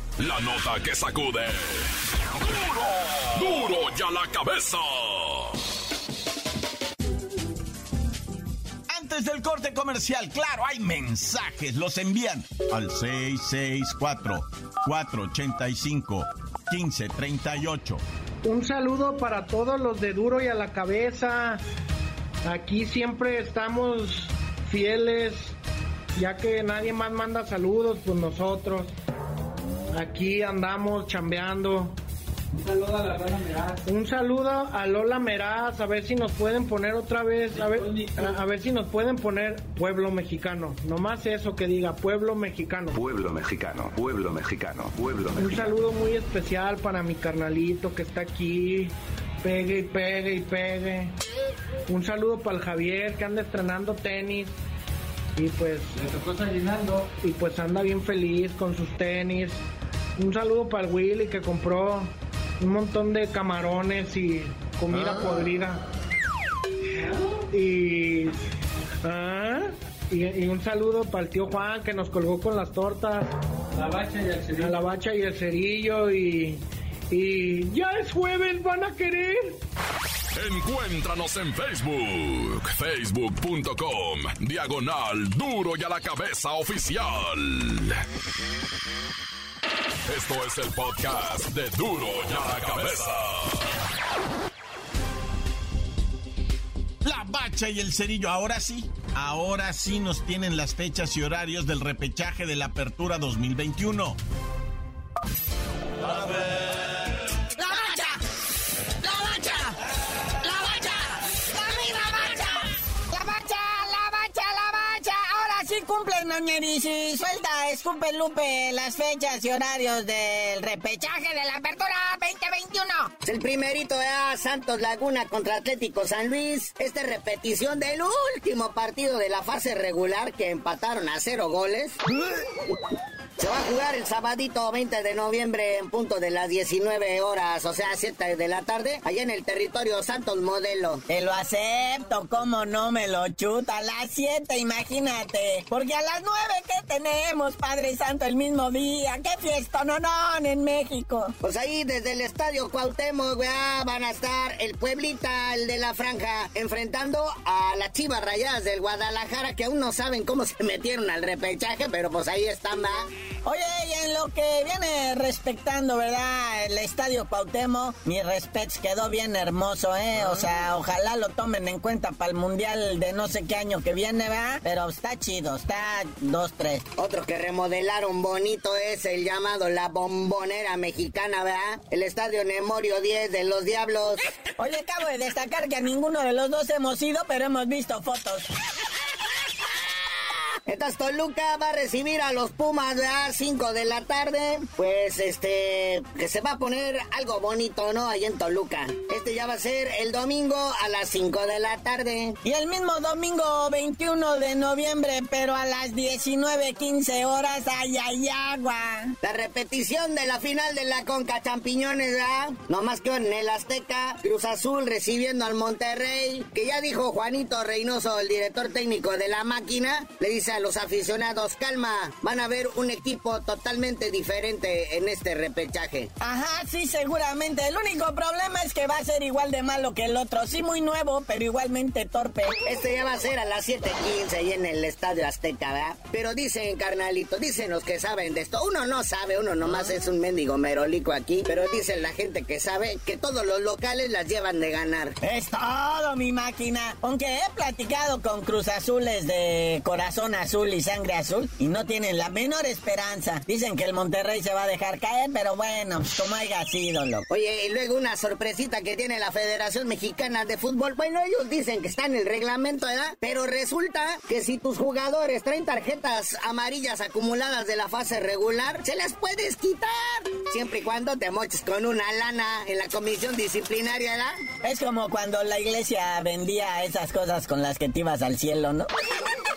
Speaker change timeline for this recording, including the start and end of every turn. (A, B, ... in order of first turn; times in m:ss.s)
0:00.2-0:05.6 A
0:08.9-0:18.0 B
0:18.4-0:21.6 C
0:22.4-0:25.6 C
0:26.2-0:28.9 C
0:29.9-0:32.0 C
0:32.5-0:33.8 D
0:33.9-0:43.0 C
0:37.5-0:38.4 D
0:42.9-0:45.7 E
0:45.4-0:51.1 C
0:51.9-0:54.5 C
0:55.4-0:56.0 C
0:56.0-0:57.1 D
0:57.2-0:59.6 C
1:00.2-1:05.8 C
1:07.5-1:08.4 C
1:09.0-1:13.3 C
1:13.8-1:14.8 D
1:14.6-1:19.6 C
1:20.4-1:28.0 A
1:30.1-1:33.7 A
1:37.0-1:44.2 B
1:47.6-1:48.2 F
1:49.0-1:49.8 F
1:50.4-2:03.1 F
2:03.2-2:12.0 G
2:13.4-2:21.0 G
2:21.1-2:31.3 F
2:31.4-2:43.1 G
2:43.4-2:56.8 F
2:57.0-3:04.2 G
3:04.6-3:08.5 F
3:10.7-3:22.4 G
3:22.4-3:29.1 F
3:29.2-3:46.1 G
3:46.2-3:52.6 F
3:52.6-4:05.2 G
4:05.2-4:17.2 F
4:17.3-4:34.4 G
4:34.6-4:38.9 F